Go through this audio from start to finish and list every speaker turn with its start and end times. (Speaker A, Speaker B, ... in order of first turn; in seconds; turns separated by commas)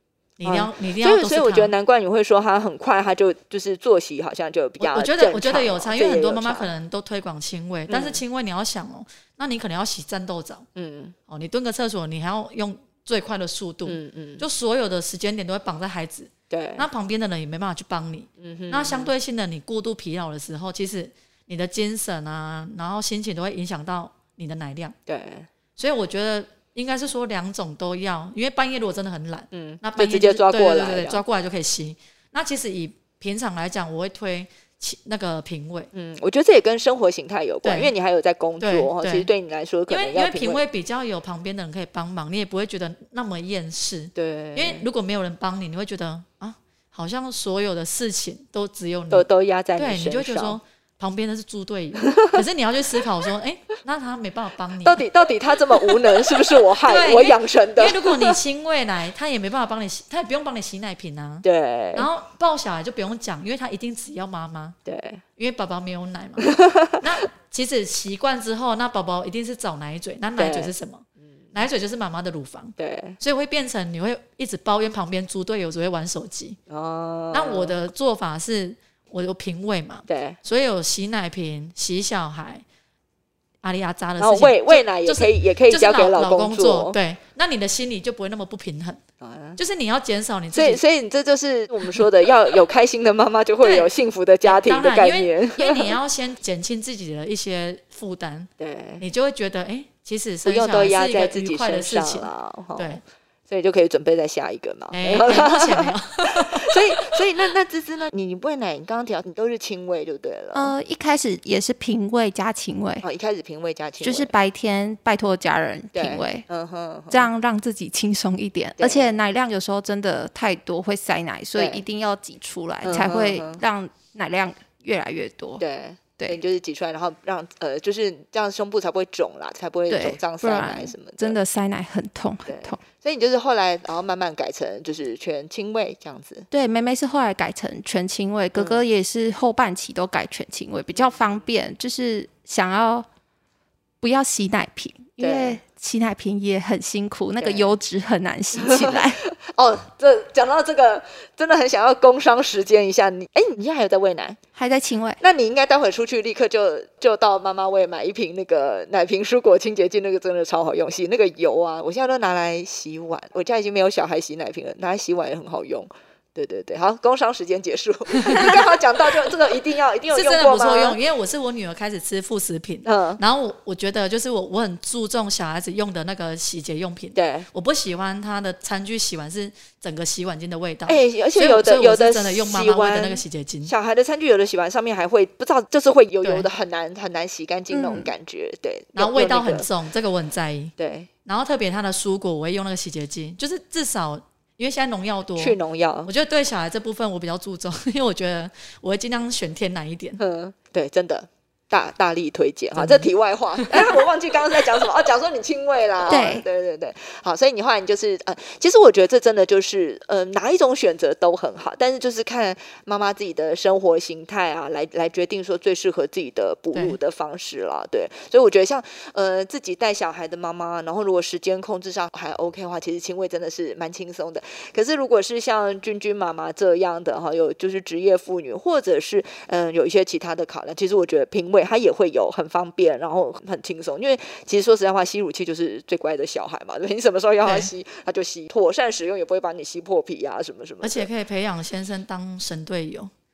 Speaker A: 0.4-1.7, Speaker B: 0.5-6.7, Speaker A: 4.8-10.7, Speaker B: 7.9-8.2, Speaker B: 10.8-11.2, Speaker A: 11.3-24.9, Speaker B: 13.9-14.5, Speaker B: 16.5-16.9, Speaker B: 18.4-19.1, Speaker B: 25.1-25.5, Speaker A: 25.8-35.9, Speaker B: 29.5-31.2, Speaker B: 35.9-40.6, Speaker A: 37.6-37.9, Speaker A: 38.6-39.3, Speaker A: 39.9-55.0, Speaker B: 44.2-44.9, Speaker B: 49.1-50.6, Speaker B: 52.0-52.3, Speaker B: 54.8-58.4, Speaker A: 56.8-64.8, Speaker B: 61.4-62.1, Speaker B: 64.9-65.2, Speaker A: 65.4-76.6, Speaker B: 66.4-67.0, Speaker B: 70.4-70.7, Speaker B: 72.8-73.2, Speaker B: 76.7-77.8, Speaker A: 77.3-82.6, Speaker B: 80.1-80.4, Speaker A: 83.6-89.0, Speaker B: 84.2-87.0, Speaker B: 89.2-89.6, Speaker A: 89.6-90.8, Speaker B: 90.5-96.0, Speaker A: 93.6-93.9, Speaker A: 94.5-103.0, Speaker B: 98.6-99.1, Speaker B: 100.5-110.7, Speaker A: 104.9-107.2, Speaker C: 110.5-113.0, Speaker B: 113.0-114.3, Speaker C: 114.0-116.5, Speaker B: 115.9-117.3, Speaker C: 117.1-125.6, Speaker B: 118.8-119.1, Speaker B: 121.6-121.8, Speaker B: 122.8-123.6, Speaker B: 125.6-131.4, Speaker C: 129.9-132.8, Speaker B: 132.5-136.5, Speaker C: 136.5-143.1, Speaker B: 138.6-138.8, Speaker B: 140.9-141.3, Speaker C: 144.0-149.2, Speaker B: 145.2-145.6, Speaker B: 147.4-147.8, Speaker B: 148.6-154.4, Speaker C: 154.6-155.2, Speaker B: 155.2-171.0, Speaker A: 170.1-183.7, Speaker B: 172.8-173.2, Speaker B: 177.2-177.5, Speaker B: 180.9-189.7, Speaker A: 186.2-186.5, Speaker C: 187.7-188.1, Speaker A: 188.9-190.7, Speaker B: 190.8-191.1, Speaker A: 191.3-200.2, Speaker B: 195.4-196.1, Speaker B: 200.2-241.1, Speaker A: 202.8-203.8, Speaker C: 206.1-206.4, Speaker A: 237.4-237.7, Speaker A: 240.8-243.1